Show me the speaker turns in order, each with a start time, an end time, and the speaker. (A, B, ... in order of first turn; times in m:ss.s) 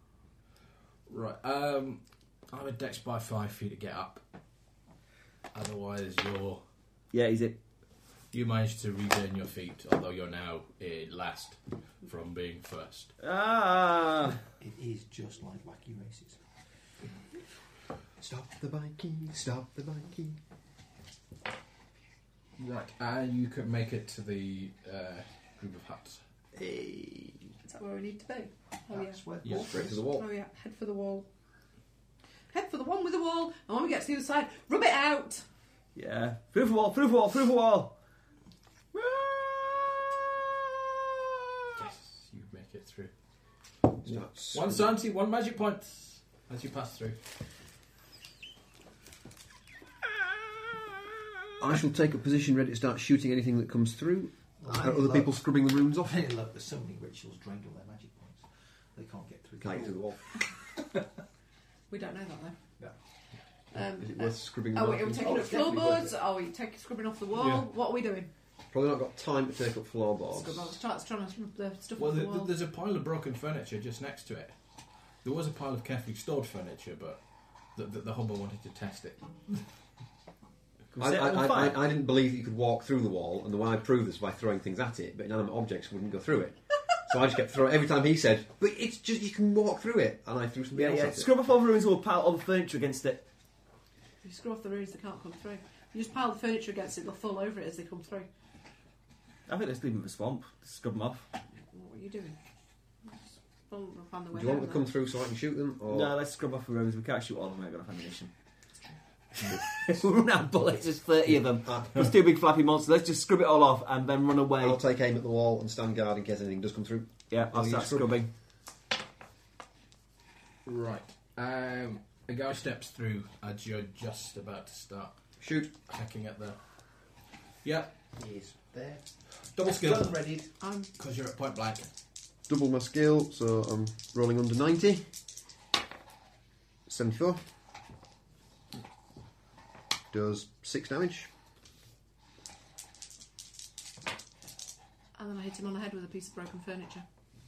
0:01.1-0:04.2 A
0:05.5-0:06.6 A
0:07.1-0:07.6 B
0:08.3-0:13.1 A
0:13.2-0:14.4 B
0:14.6-0:16.4 C
0:18.2-0:20.4 D
0:22.6-0:26.2 A
0:26.5-0:27.5 D
0:27.6-0:29.2 E
0:28.9-0:30.0 C
0:29.4-0:29.9 A
0:29.6-0:30.2 D
0:30.1-0:31.3 E
0:32.5-0:35.4 E
0:35.9-0:38.0 B
0:38.9-0:39.7 B
0:41.7-0:43.1 A
0:44.0-0:44.9 D
0:44.0-0:47.2 A
0:51.6-0:56.2 D
0:54.6-1:00.5 C
0:59.6-1:00.2 D
1:01.9-1:02.6 E
1:03.7-1:08.3 E
1:03.7-1:06.0 D
1:07.4-1:07.7 A
1:08.7-1:10.7 D
1:10.3-1:12.5 E
1:12.0-1:14.6 A
1:15.2-1:17.2 A
1:17.7-1:19.6 A
1:20.9-1:21.8 B
1:21.0-1:31.3 D
1:30.7-1:33.2 B
1:34.2-1:38.3 E
1:39.5-1:41.3 B
1:41.7-1:42.4 E
1:43.0-1:44.9 E
1:44.3-1:46.1 D
1:45.9-1:48.3 B
1:49.4-1:54.8 B
1:54.6-1:58.2 D
1:57.3-1:58.3 B
2:00.6-2:06.8 A
2:05.4-2:05.7 D
2:07.6-2:07.9 A
2:08.1-2:09.1 C
2:09.4-2:11.9 A
2:09.7-2:10.5 C
2:10.6-2:10.9 E
2:12.5-2:15.1 D
2:16.8-2:17.4 D
2:20.1-2:21.3 D
2:25.1-2:27.0 E